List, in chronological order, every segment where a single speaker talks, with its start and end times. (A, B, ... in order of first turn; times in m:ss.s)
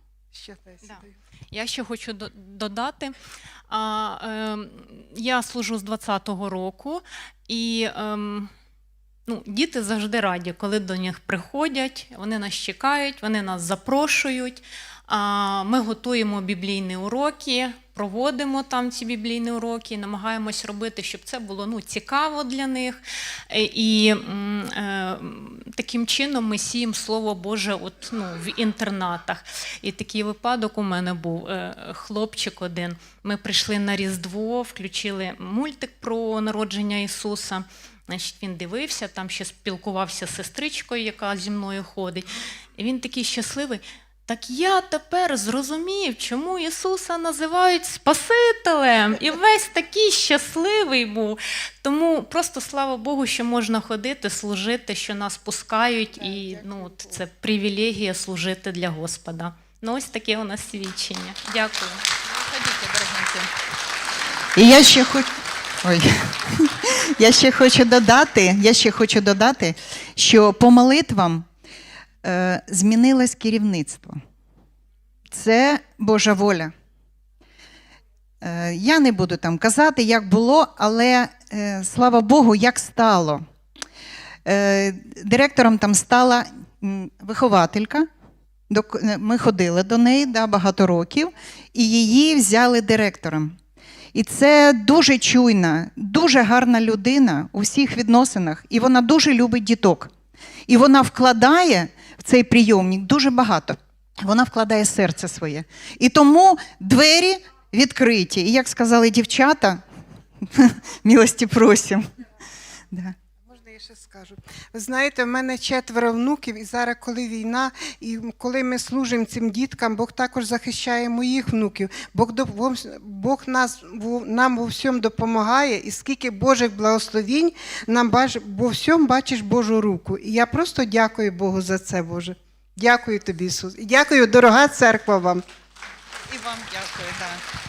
0:00.3-0:01.1 A
0:00.8-0:03.1 B
0:03.7-0:08.5 B
0:09.3-0:23.0 B
0:23.5-1:02.0 B
0:56.3-0:57.2 A
1:02.2-1:03.5 C
1:04.6-1:05.3 C
1:05.8-1:11.4 C
1:12.2-1:14.2 C
1:15.3-1:16.7 C
1:18.4-1:23.4 C
1:24.4-1:28.0 C
1:28.7-1:33.5 C
1:34.1-1:40.1 C
1:40.7-1:49.8 C
1:50.4-1:52.0 C
1:53.4-2:15.4 A
2:16.3-2:17.4 C